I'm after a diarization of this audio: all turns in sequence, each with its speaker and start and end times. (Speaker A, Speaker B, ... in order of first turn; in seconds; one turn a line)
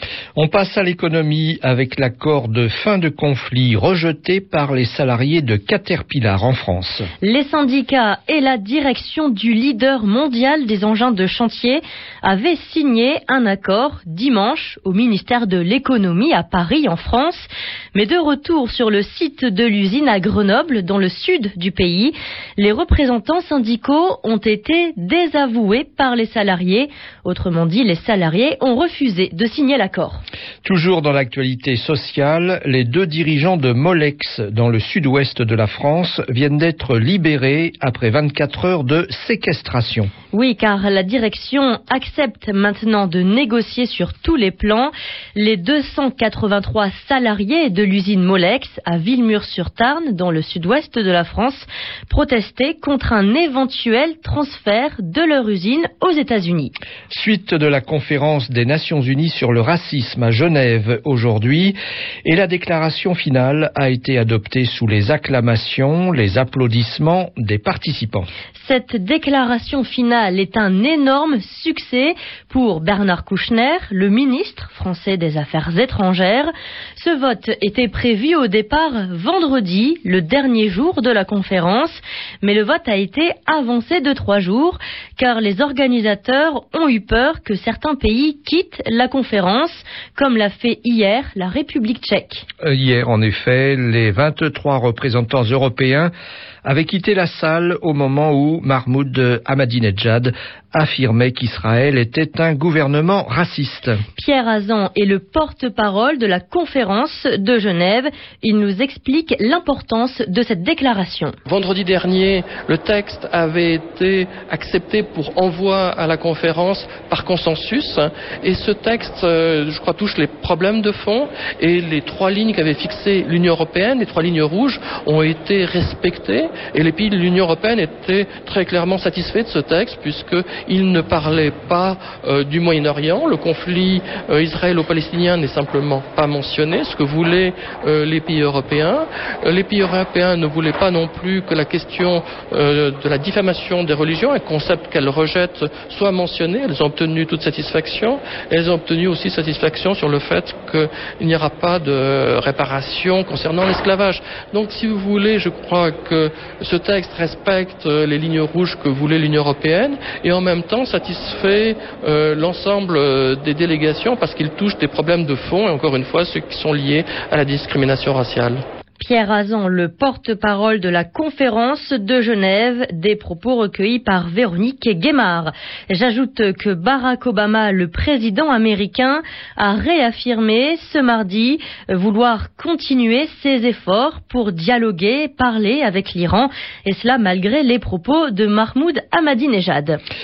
Speaker A: 0.4-7.1
Speaker B: 7.2-30.2
Speaker A: 30.6-40.1
Speaker B: 40.3-56.7
Speaker A: 57.1-68.3
Speaker B: 68.6-92.4
Speaker A: 92.6-96.1
Speaker A: 96.7-104.0
Speaker B: 104.2-111.4
Speaker C: 111.5-168.5
Speaker B: 169.0-190.0